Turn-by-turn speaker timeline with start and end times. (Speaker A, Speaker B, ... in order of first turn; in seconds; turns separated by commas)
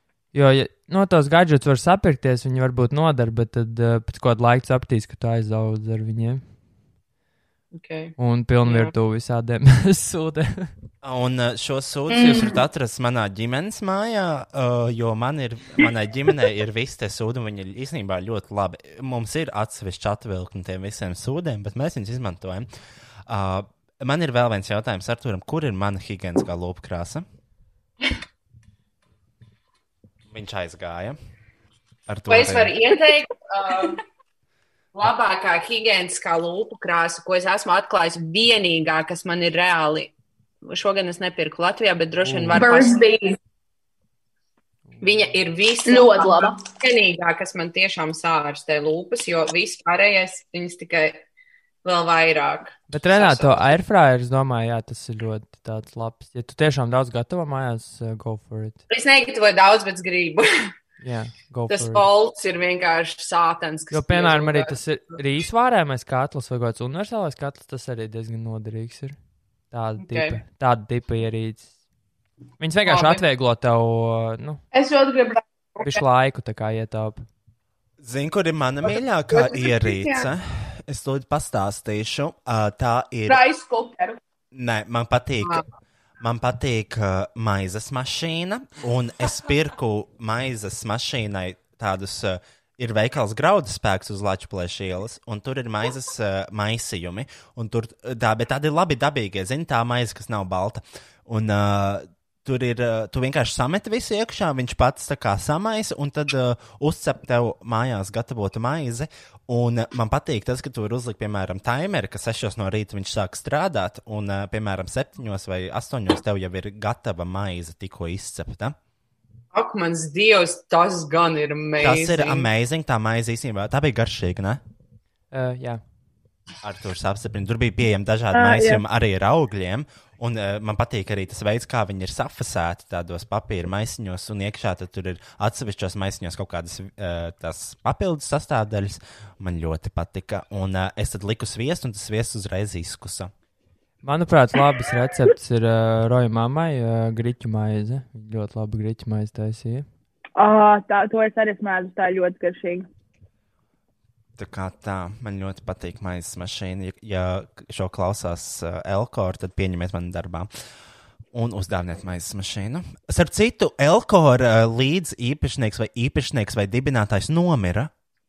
Speaker A: 0.3-6.5, Speaker B: 7.7-8.9, Speaker A: 8.2-10.7, Speaker C: 11.0-22.7, Speaker D: 12.1-12.6, Speaker C: 23.3-27.2, Speaker C: 30.3-31.2, Speaker C: 32.1-32.7, Speaker B: 32.3-34.0, Speaker B: 34.9-40.1, Speaker B: 40.6-43.0, Speaker A: 42.2-42.8, Speaker D: 42.5-43.3, Speaker A: 44.9-45.4, Speaker B: 45.0-51.2, Speaker D: 45.9-46.6, Speaker B: 51.8-53.8, Speaker A: 52.9-58.8, Speaker B: 58.9-60.7, Speaker A: 61.0-62.0, Speaker B: 61.7-64.8, Speaker A: 63.9-71.9, Speaker B: 70.0-70.4, Speaker A: 72.6-74.6, Speaker B: 72.8-73.2, Speaker D: 74.7-76.0, Speaker A: 75.8-77.2, Speaker C: 78.0-83.4, Speaker B: 78.8-80.3, Speaker D: 83.3-84.2, Speaker C: 84.5-85.7, Speaker C: 86.2-118.8, Speaker B: 119.5-122.5, Speaker C: 121.8-124.6, Speaker A: 125.3-125.8, Speaker C: 126.6-143.3, Speaker E: 128.3-128.8, Speaker A: 144.0-149.9, Speaker E: 150.3-152.9, Speaker C: 154.4-160.5, Speaker C: 161.3-167.9